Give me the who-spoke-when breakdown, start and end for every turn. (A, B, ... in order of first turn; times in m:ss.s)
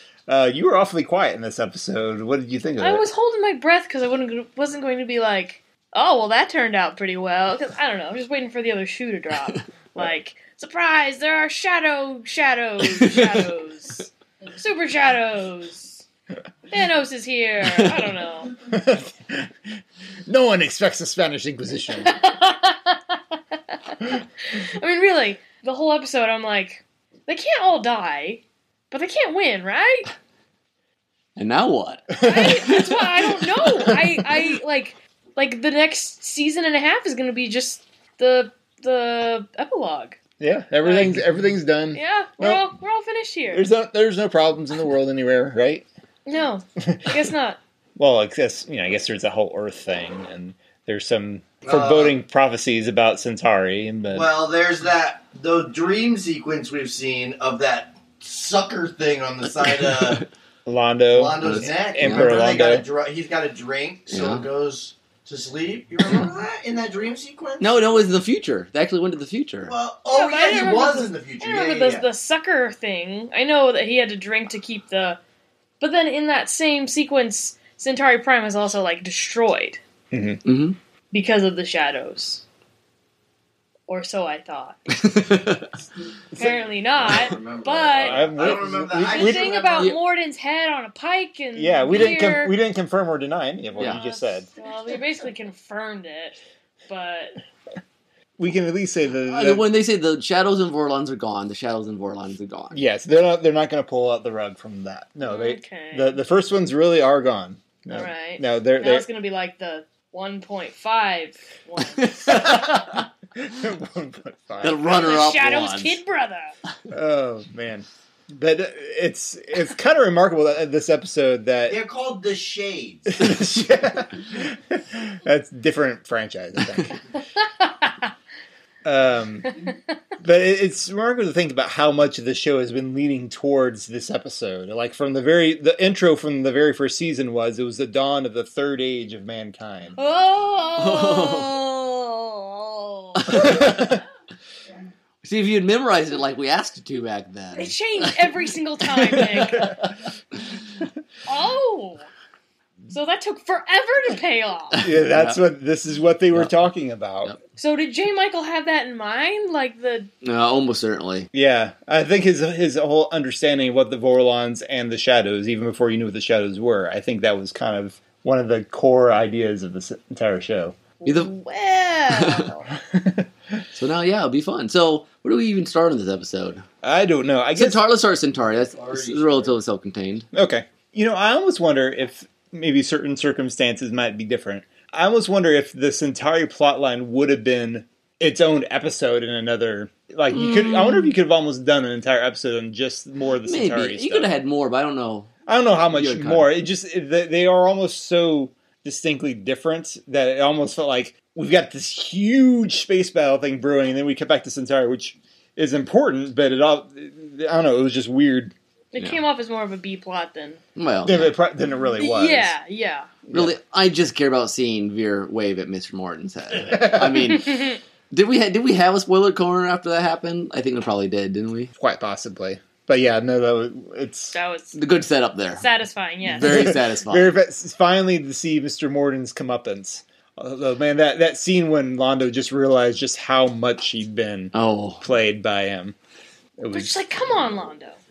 0:00.3-0:03.0 A
0:02.8-0:16.0 B
0:13.0-0:13.3 C
0:16.7-0:18.5 B
0:18.6-0:19.5 A
0:20.3-0:22.2 A
0:21.9-0:30.1 B
0:31.4-0:32.6 C
0:32.1-0:32.5 A
0:32.2-0:40.2 B
0:40.4-0:42.6 A
0:40.8-0:41.3 B
0:41.9-0:43.7 B
0:43.5-0:45.9 A
0:46.3-0:47.6 B
0:46.8-0:47.1 A
0:48.0-0:54.3 A
0:51.6-0:52.2 D
0:54.1-1:00.3 D
1:00.7-1:02.9 A
1:01.1-1:08.1 D
1:01.4-1:02.5 C
1:04.1-1:04.4 C
1:07.6-1:09.7 C
1:09.7-1:12.1 D
1:10.1-1:15.2 B
1:15.8-1:19.8 B
1:20.1-1:20.4 A
1:20.4-1:20.8 C
1:21.1-1:22.4 B
1:23.9-1:24.9 B
1:24.9-1:25.7 C
1:26.3-1:26.6 A
1:26.4-1:32.6 B
1:27.0-1:30.0 D
1:28.0-1:29.5 A
1:31.6-1:34.5 A
1:33.7-1:36.4 B
1:36.9-1:37.4 B
1:38.4-1:39.6 A
1:39.3-1:42.8 C
1:42.7-1:49.1 A
1:45.2-1:46.2 B
1:47.9-1:52.6 B
1:52.0-1:53.0 C
1:52.6-1:55.3 A
1:54.6-1:56.0 C
1:54.9-1:56.5 B
1:56.9-2:01.8 A
2:01.6-2:03.3 D
2:03.1-2:07.0 A
2:07.4-2:08.1 B
2:08.8-2:09.6 A
2:10.2-2:20.0 A
2:20.0-2:23.4 B
2:20.8-2:21.6 C
2:23.2-2:23.8 C
2:23.3-2:24.0 A
2:25.2-2:28.2 C
2:27.6-2:29.8 B
2:29.2-2:29.6 C
2:31.3-2:32.1 B
2:32.9-2:34.9 B
2:34.8-2:35.4 C
2:34.8-2:37.3 A
2:37.6-2:40.1 B
2:40.2-2:41.3 C
2:41.3-2:50.8 A
2:51.0-2:52.6 B
2:51.1-2:51.3 C
2:52.1-2:52.5 C
2:52.7-2:53.3 A
2:53.8-2:56.6 C
2:56.8-2:57.8 A
2:57.6-3:00.3 C
2:58.6-2:59.6 D
3:00.3-3:14.4 A
3:10.3-3:11.1 B
3:13.4-3:15.3 C
3:15.5-3:28.5 A
3:15.9-3:16.5 C
3:28.9-3:30.6 B
3:30.8-3:31.4 C
3:31.0-3:32.5 A
3:31.8-3:33.2 B
3:33.3-3:33.6 A
3:33.3-3:41.7 C
3:36.7-3:37.0 A
3:37.3-3:37.8 B
3:41.8-3:44.4 A
3:44.3-3:44.8 B
3:44.8-3:45.7 C
3:45.6-3:46.8 B
3:46.2-3:47.4 C
3:46.4-3:56.0 A
3:54.5-3:55.0 C
3:56.6-3:56.9 A
3:56.7-3:58.0 B